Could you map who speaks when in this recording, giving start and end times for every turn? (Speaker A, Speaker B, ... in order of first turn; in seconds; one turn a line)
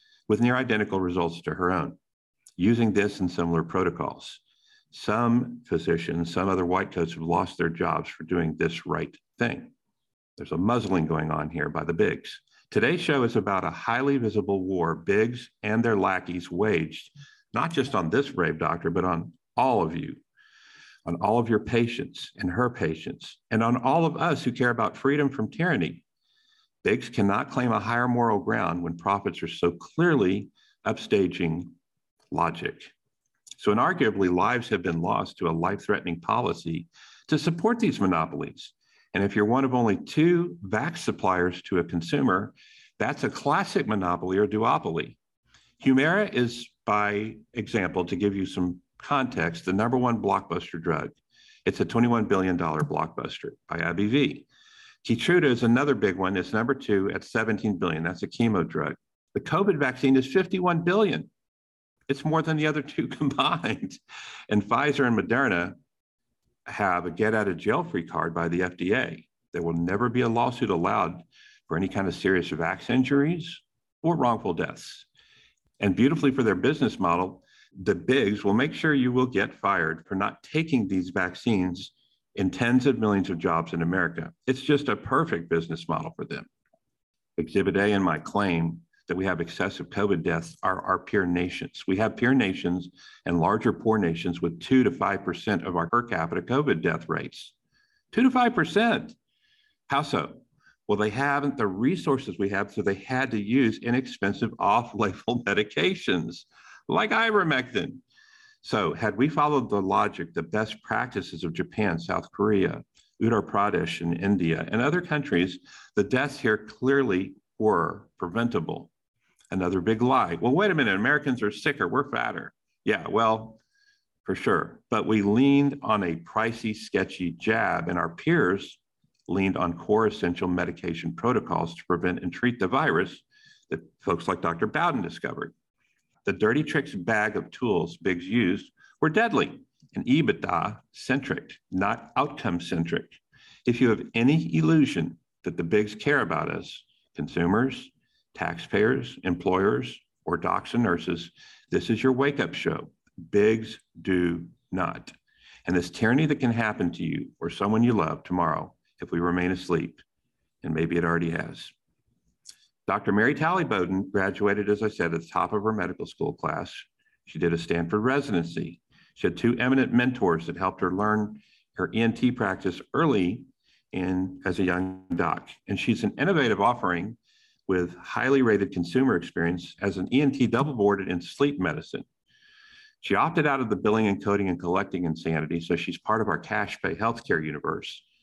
Speaker A: 0.3-2.0
Speaker A: 2.6-4.4
Speaker A: 4.9-9.7
Speaker A: 10.4-20.2
Speaker A: 21.0-26.0
Speaker A: 26.8-31.7
Speaker A: 32.3-32.9
Speaker A: 33.6-45.2
Speaker A: 45.8-54.5
Speaker A: 55.0-61.3
Speaker A: 62.1-65.8
Speaker A: 66.7-75.1
Speaker A: 75.8-86.5
Speaker A: 87.4-97.5
Speaker A: 98.1-99.2
Speaker A: 99.9-108.0
Speaker A: 108.6-118.9
Speaker A: 119.5-123.6
Speaker A: 124.2-135.5
Speaker A: 136.2-155.1
Speaker A: 155.7-160.0
Speaker A: 160.6-161.7
Speaker A: 162.8-182.1
Speaker A: 183.0-188.0